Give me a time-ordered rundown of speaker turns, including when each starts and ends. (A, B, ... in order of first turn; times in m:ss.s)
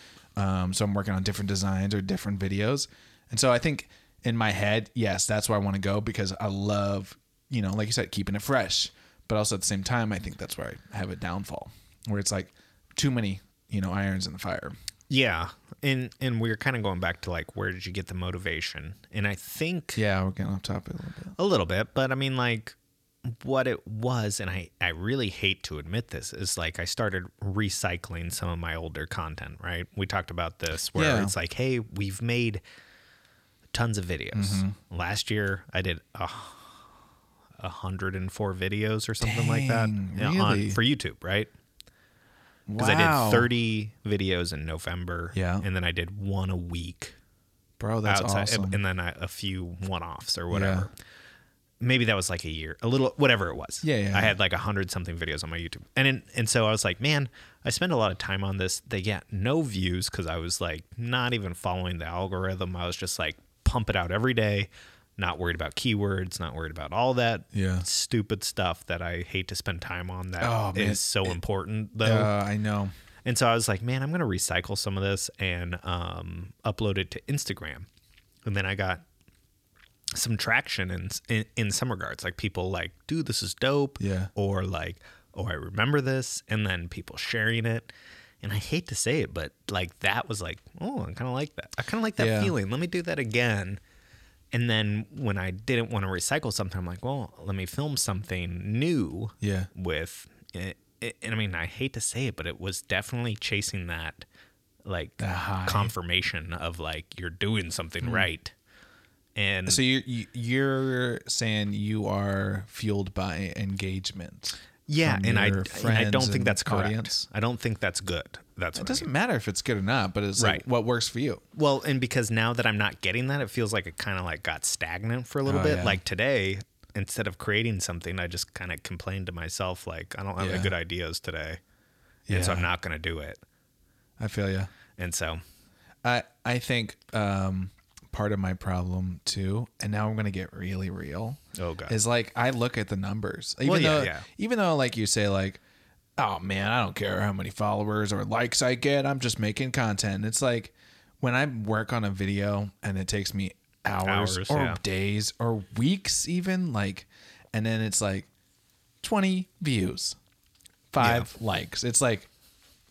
0:00.4-0:14.8 A
0:15.1-0:20.0 B
0:20.0-0:21.4 A
0:21.4-0:32.6 B
0:30.9-0:31.3 A
0:33.7-0:36.8 B
0:34.3-0:34.8 A
0:37.6-0:41.5 B
0:39.2-0:40.8 A
0:42.7-0:43.5 A
0:42.8-0:47.2 B
0:45.3-0:45.6 A
0:47.8-0:48.8 A
0:48.1-0:50.9 B
0:50.5-0:50.9 A
0:51.8-1:12.3 B
0:53.8-0:54.4 A
1:07.5-1:07.9 A
1:10.4-1:11.4 A
1:12.0-1:12.9 A
1:13.2-1:17.9 B
1:18.4-1:19.0 B
1:20.1-1:33.8 B
1:24.0-1:24.3 A
1:32.2-1:32.5 A
1:34.5-1:44.2 B
1:39.4-1:39.7 A
1:44.8-1:48.5 B
1:45.2-1:45.9 A
1:49.4-1:49.8 B
1:49.7-1:57.3 A
1:54.9-1:59.1 B
1:58.8-2:01.4 A
2:00.4-2:00.6 B
2:01.6-2:11.6 B
2:05.4-2:06.0 A
2:10.4-2:10.7 A
2:12.3-2:12.7 A
2:12.3-2:13.4 B
2:14.2-2:14.7 A
2:15.0-2:15.4 B
2:16.0-2:25.6 A
2:21.6-2:22.0 B
2:23.6-2:24.3 B
2:26.2-2:38.3 A
2:34.0-2:34.8 B
2:39.0-2:40.2 A
2:40.9-2:42.3 A
2:41.0-2:41.3 B